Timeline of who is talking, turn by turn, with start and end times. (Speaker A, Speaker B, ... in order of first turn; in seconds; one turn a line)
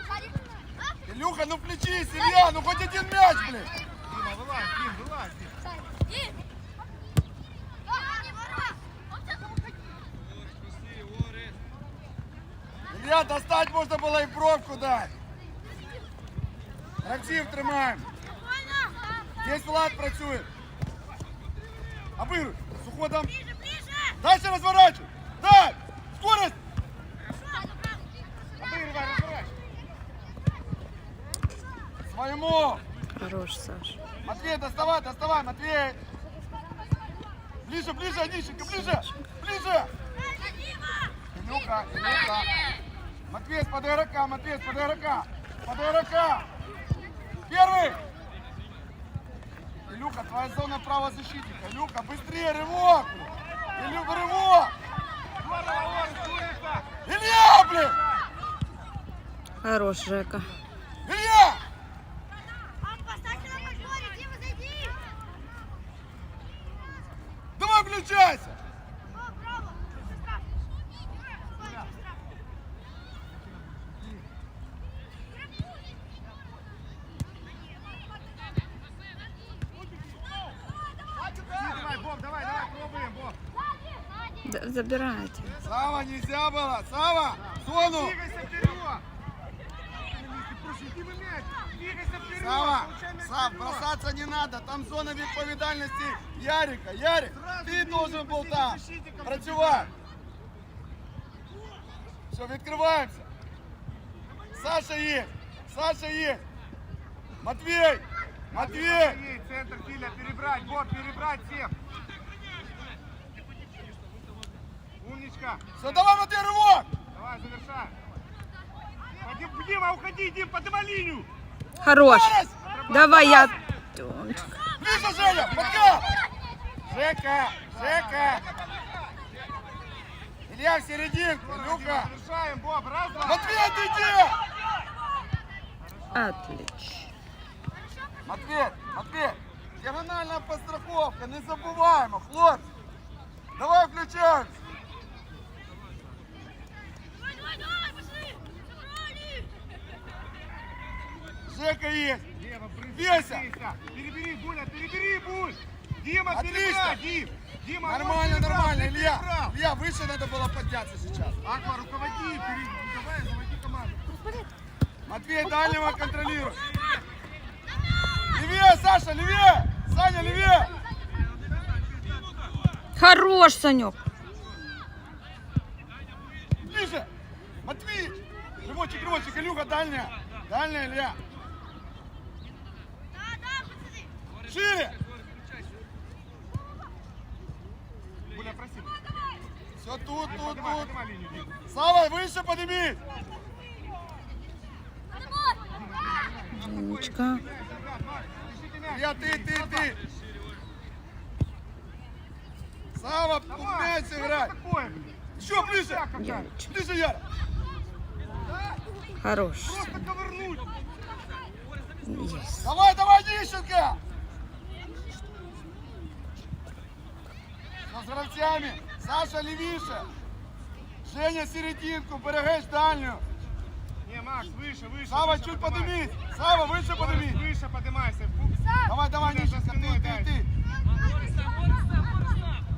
Speaker A: 1.1-3.7
Speaker B: 4.1-5.6
Speaker A: 12.9-15.1
Speaker A: 17.0-18.1
Speaker A: 19.4-20.5
Speaker A: 22.2-23.3
Speaker A: 24.2-26.6
Speaker B: 28.6-29.5
Speaker A: 32.1-32.8
Speaker C: 33.2-34.0
Speaker A: 34.2-36.0
Speaker A: 37.6-39.9
Speaker A: 41.3-42.5
Speaker A: 43.3-46.5
Speaker A: 47.5-48.0
Speaker A: 49.9-54.7
Speaker B: 55.4-56.9
Speaker A: 57.0-58.0
Speaker C: 59.6-60.5
Speaker A: 61.0-61.6
Speaker A: 67.6-68.6
Speaker B: 71.6-71.9
Speaker B: 73.3-74.3
Speaker B: 81.5-83.4
Speaker C: 84.5-85.5
Speaker A: 85.6-88.2
Speaker B: 87.5-89.0
Speaker B: 90.1-93.9
Speaker A: 92.4-99.9
Speaker B: 97.3-100.0
Speaker A: 102.3-103.3
Speaker A: 104.5-106.4
Speaker A: 107.4-109.2
Speaker B: 108.5-111.7
Speaker B: 115.0-115.6
Speaker A: 115.8-116.9
Speaker B: 117.1-118.0
Speaker B: 119.2-121.3
Speaker C: 121.8-124.6
Speaker A: 122.0-122.5
Speaker B: 122.6-123.6
Speaker A: 124.8-126.1
Speaker B: 125.1-126.1
Speaker A: 126.9-128.5
Speaker B: 127.7-128.5
Speaker A: 130.5-132.1
Speaker B: 131.4-133.5
Speaker A: 133.2-134.4
Speaker C: 136.2-137.1
Speaker A: 138.2-142.7
Speaker A: 143.6-144.6
Speaker A: 151.5-152.3
Speaker B: 152.4-159.6
Speaker A: 152.9-153.5
Speaker A: 156.3-157.0
Speaker A: 157.8-161.4
Speaker B: 161.4-164.1
Speaker A: 165.1-166.6
Speaker A: 168.3-170.7
Speaker C: 173.0-174.0
Speaker A: 176.6-177.1
Speaker A: 177.6-181.2
Speaker A: 184.4-185.0
Speaker B: 188.3-189.0
Speaker A: 189.8-190.9
Speaker B: 190.3-191.5
Speaker A: 191.7-193.0
Speaker B: 195.7-199.9
Speaker C: 196.6-197.4
Speaker A: 198.9-200.0
Speaker A: 202.9-204.6
Speaker B: 203.5-206.5
Speaker A: 205.3-206.1
Speaker C: 206.2-206.7
Speaker A: 206.7-207.2
Speaker C: 209.2-210.1
Speaker B: 209.7-210.7
Speaker C: 212.1-212.7
Speaker A: 212.6-214.0
Speaker A: 217.9-220.1
Speaker A: 221.1-223.2
Speaker B: 224.0-226.0
Speaker A: 225.1-227.5
Speaker B: 226.9-230.3
Speaker A: 228.9-230.5